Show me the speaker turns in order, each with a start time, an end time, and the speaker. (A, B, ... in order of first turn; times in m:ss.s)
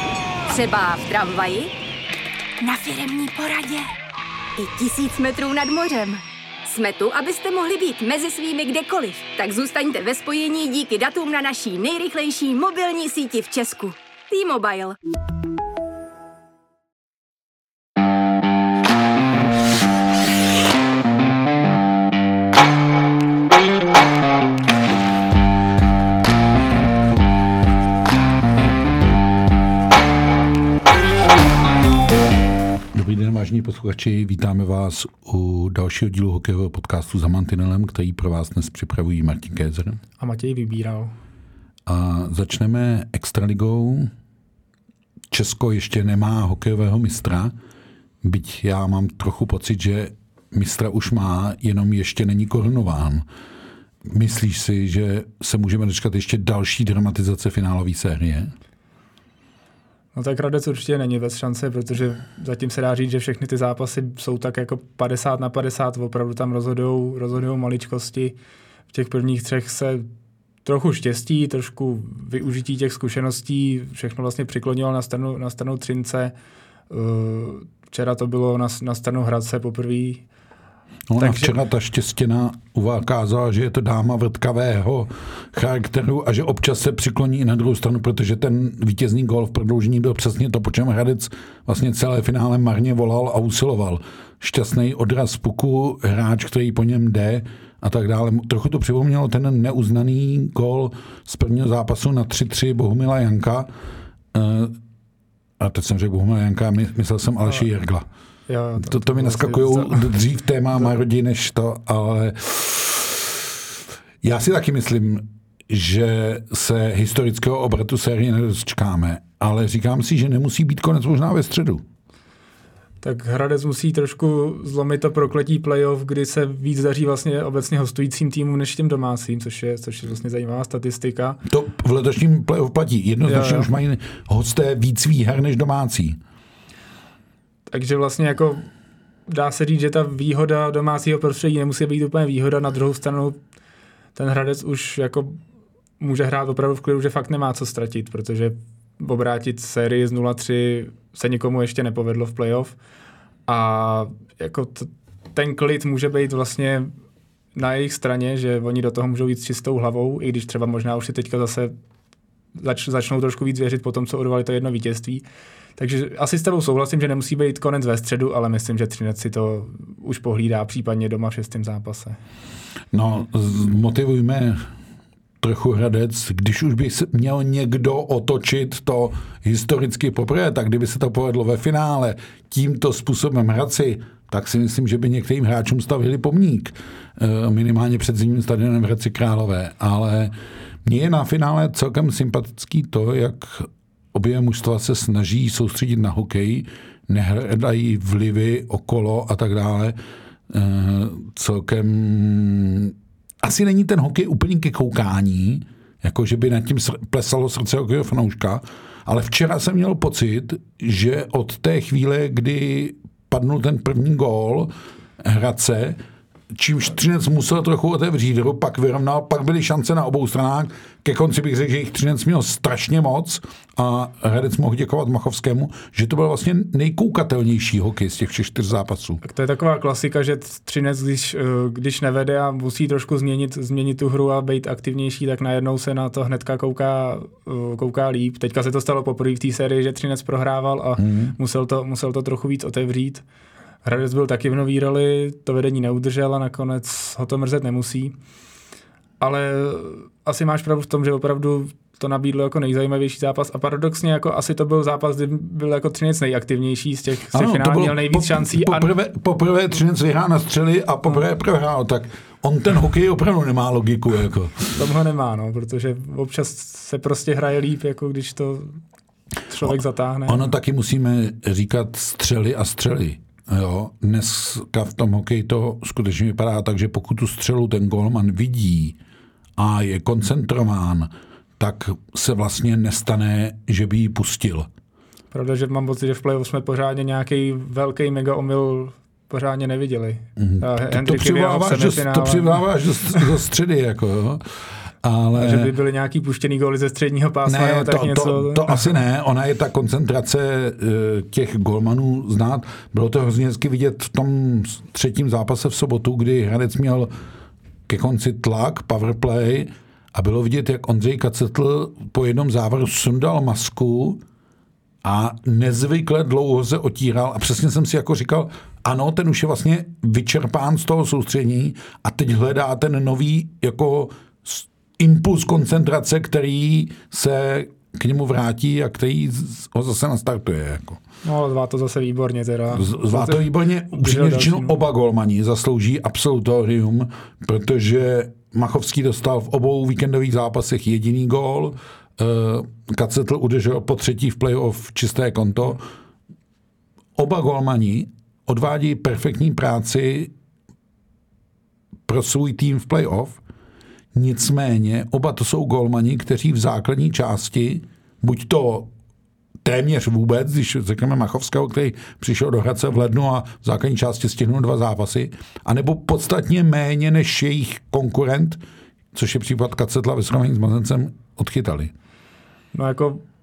0:00.5-0:01.7 A
0:02.6-0:03.9 A
0:04.6-0:15.0 A
0:32.9-0:40.0 B
0:40.2-0:41.1 C
0:41.9-0:44.1 B
0:45.3-0:47.5 B
0:48.2-0:53.2 B
0:54.1-0:58.5 B
1:00.1-1:08.4 C
1:08.9-1:10.1 C
1:10.6-1:16.3 C
1:16.9-1:20.2 C
1:21.1-1:43.7 B
1:21.2-1:21.6 C
1:44.3-1:44.8 B
1:45.6-1:48.1 B
1:48.5-1:50.1 C
1:48.8-1:53.6 B
1:54.2-2:01.8 B
2:03.0-2:11.4 C
2:11.4-2:16.2 B
2:13.3-2:13.7 C
2:17.7-2:18.6 C
2:19.3-2:23.4 C
2:24.2-2:25.4 C
2:26.0-2:32.8 C
2:33.5-2:36.9 C
2:37.6-2:41.7 C
2:42.6-2:45.2 C
2:45.8-2:52.2 C
2:52.9-2:54.6 B
2:55.4-3:20.0 B
3:20.5-3:36.0 B
3:36.5-3:49.2 B
3:49.2-4:03.2 C
4:01.0-4:01.4 B
4:03.8-4:08.2 C
4:09.2-4:18.9 C
4:17.3-4:24.8 B
4:24.7-4:28.8 C
4:29.5-4:30.5 C
4:29.6-4:39.0 B
4:39.6-4:44.7 B
4:45.3-4:53.2 C
4:50.4-4:54.4 B
4:55.0-4:55.7 B
4:55.4-4:59.0 C
4:57.5-5:07.1 B
5:07.9-5:14.2 B
5:15.0-5:31.0 B
5:31.2-5:34.7 C
5:32.7-5:45.8 B
5:47.2-5:50.3 B
5:52.1-5:53.4 B
5:54.1-5:58.9 B
5:59.6-6:08.6 B
6:09.1-6:11.9 B
6:12.7-6:13.2 C